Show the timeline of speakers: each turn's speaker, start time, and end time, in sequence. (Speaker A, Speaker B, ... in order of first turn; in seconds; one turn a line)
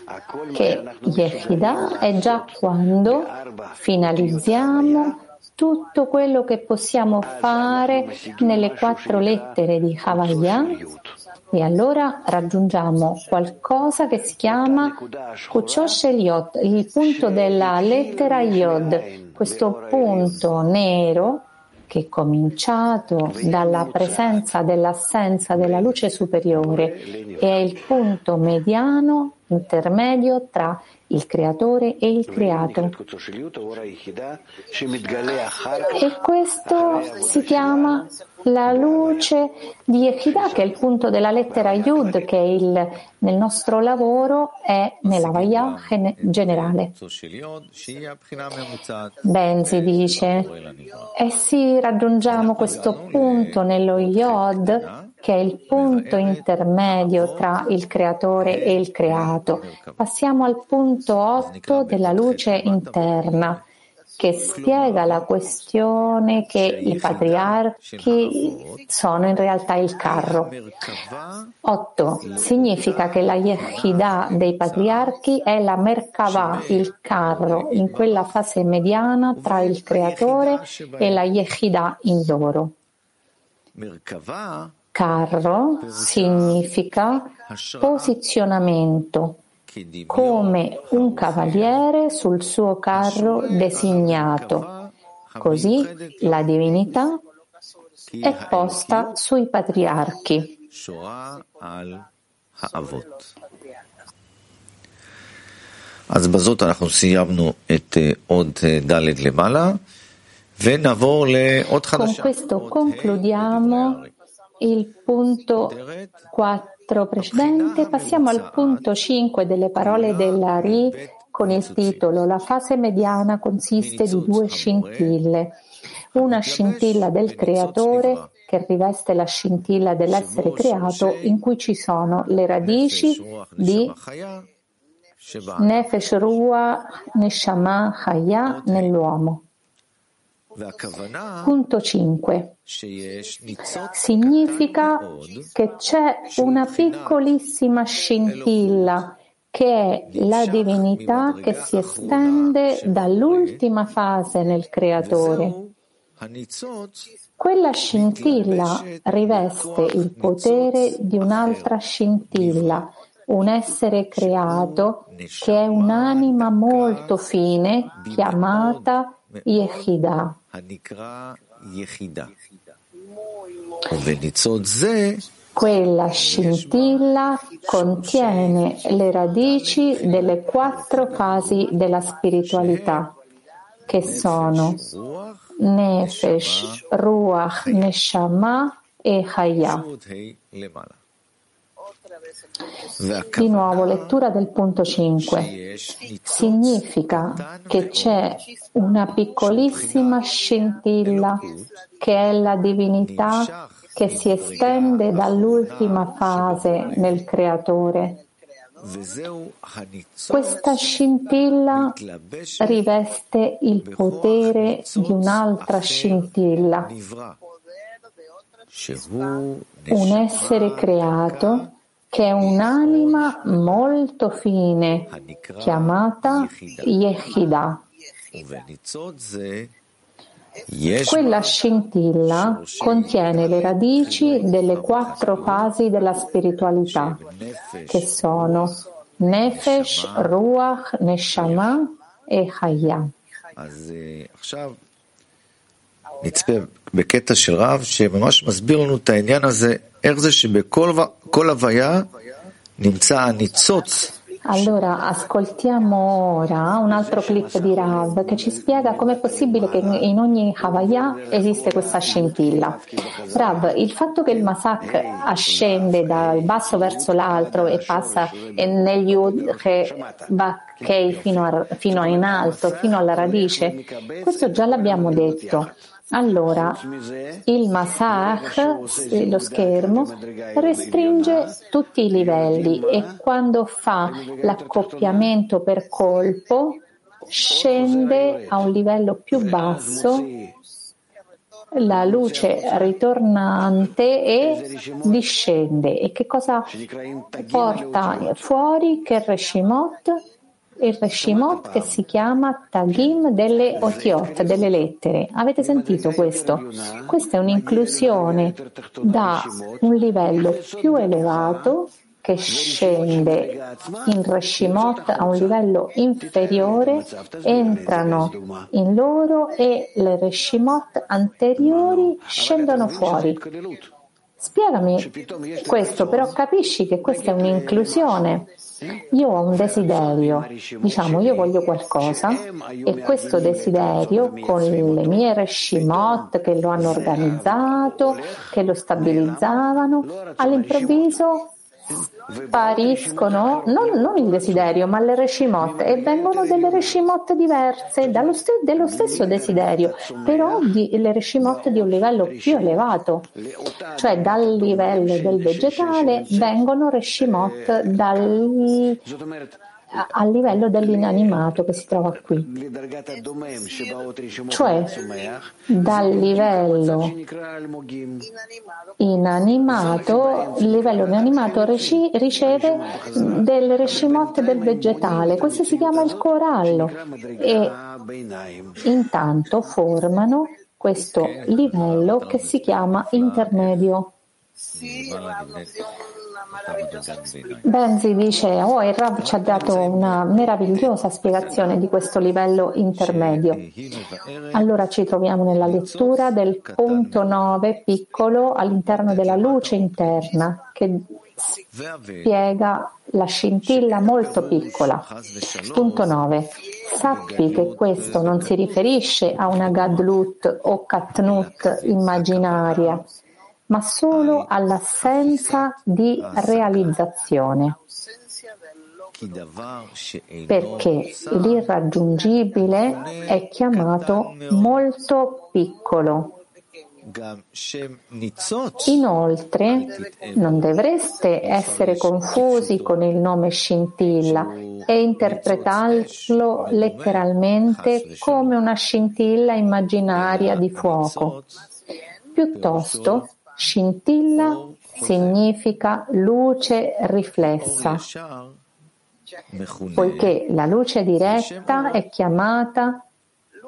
Speaker A: 0.5-10.8
Speaker A: 11.5-33.0
Speaker A: 35.8-46.9
Speaker B: 45.0-51.1
Speaker A: 49.2-50.5
Speaker A: 51.1-63.6
Speaker B: 52.3-55.1
Speaker B: 55.7-57.4
Speaker B: 58.4-60.0
Speaker B: 61.4-63.5
Speaker A: 64.2-70.5
Speaker B: 64.6-65.2
Speaker B: 66.8-68.8
Speaker B: 70.1-71.5
Speaker A: 71.6-82.7
Speaker B: 72.2-75.1
Speaker B: 76.3-78.3
Speaker B: 79.4-81.3
Speaker B: 83.7-84.8
Speaker A: 84.9-89.4
Speaker B: 85.8-86.6
Speaker B: 87.5-88.2
Speaker B: 89.7-91.8
Speaker A: 90.1-94.7
Speaker B: 92.9-96.2
Speaker A: 95.4-97.2
Speaker B: 98.1-99.2
Speaker A: 98.2-100.5
Speaker B: 100.7-103.3
Speaker B: 106.1-109.8
Speaker B: 110.6-114.1
Speaker A: 111.9-114.0
Speaker A: 114.6-115.8
Speaker B: 115.6-116.2
Speaker A: 116.3-125.6
Speaker B: 117.2-118.8
Speaker B: 119.8-122.1
Speaker B: 123.8-125.1
Speaker A: 126.2-133.9
Speaker B: 126.2-128.3
Speaker B: 130.1-131.4
Speaker B: 132.6-134.5
Speaker B: 135.2-135.9
Speaker A: 135.6-139.4
Speaker B: 138.5-138.9
Speaker B: 140.5-141.5
Speaker A: 141.4-142.6
Speaker B: 142.7-145.5
Speaker A: 143.9-155.6
Speaker B: 146.6-147.1
Speaker B: 150.1-153.6
Speaker B: 155.0-157.1
Speaker A: 157.4-170.4
Speaker B: 157.9-161.7
Speaker B: 162.3-162.8
Speaker B: 164.3-167.2
Speaker B: 168.0-169.5
Speaker B: 170.5-172.4
Speaker B: 173.9-175.3
Speaker A: 175.6-183.1
Speaker B: 176.2-176.8
Speaker B: 178.0-178.6
Speaker B: 179.7-181.5
Speaker B: 182.6-183.0
Speaker A: 183.9-184.8
Speaker B: 183.9-186.8
Speaker A: 185.6-189.9
Speaker B: 189.6-191.0
Speaker B: 193.0-194.2
Speaker A: 193.4-195.5
Speaker B: 195.3-198.3
Speaker A: 196.2-201.4
Speaker B: 199.5-200.2
Speaker A: 202.0-208.2
Speaker B: 203.0-207.2
Speaker B: 208.8-210.8
Speaker A: 210.3-211.9
Speaker B: 211.7-212.8
Speaker A: 212.6-216.9
Speaker B: 213.9-216.3
Speaker B: 216.8-217.4
Speaker B: 218.7-221.7
Speaker A: 219.9-227.8
Speaker B: 225.1-226.9
Speaker B: 228.3-229.7
Speaker B: 230.7-231.5
Speaker A: 231.1-237.2
Speaker B: 232.3-235.7
Speaker B: 236.9-238.1
Speaker A: 237.9-243.1
Speaker B: 239.4-240.3
Speaker B: 243.5-244.8
Speaker B: 246.2-252.1
Speaker B: 252.8-254.2
Speaker A: 254.4-262.8
Speaker A: 263.3-276.8
Speaker A: 277.5-290.3
Speaker A: 291.7-296.7
Speaker A: 297.3-300.2
Speaker A: 300.8-323.4
Speaker A: 324.4-328.5
Speaker A: 329.1-341.5
Speaker A: 342.5-353.3
Speaker A: 354.0-359.0
Speaker A: 359.9-362.5
Speaker A: 364.5-365.0
Speaker A: 365.7-367.2
Speaker A: 369.0-377.8
Speaker A: 378.8-384.1
Speaker B: 381.2-383.7
Speaker B: 384.7-385.9
Speaker B: 386.5-387.7
Speaker A: 387.6-393.6
Speaker B: 389.7-390.4
Speaker B: 393.0-394.5
Speaker A: 394.5-401.6
Speaker B: 396.9-397.1
Speaker B: 401.9-402.2
Speaker A: 402.2-405.1
Speaker B: 405.3-406.1
Speaker A: 405.7-413.1
Speaker B: 407.4-408.4
Speaker B: 411.5-413.0
Speaker A: 413.7-417.8
Speaker B: 416.3-416.9
Speaker B: 419.1-421.7
Speaker A: 420.5-426.4
Speaker B: 422.8-424.6
Speaker B: 427.1-429.0
Speaker A: 428.9-441.4
Speaker B: 429.7-430.4
Speaker B: 431.6-432.8
Speaker B: 434.6-438.5
Speaker B: 440.2-441.5
Speaker A: 442.4-448.0
Speaker B: 442.6-443.1
Speaker B: 444.6-445.3
Speaker B: 447.6-448.6
Speaker B: 449.5-450.4
Speaker A: 450.0-453.0
Speaker B: 451.2-452.0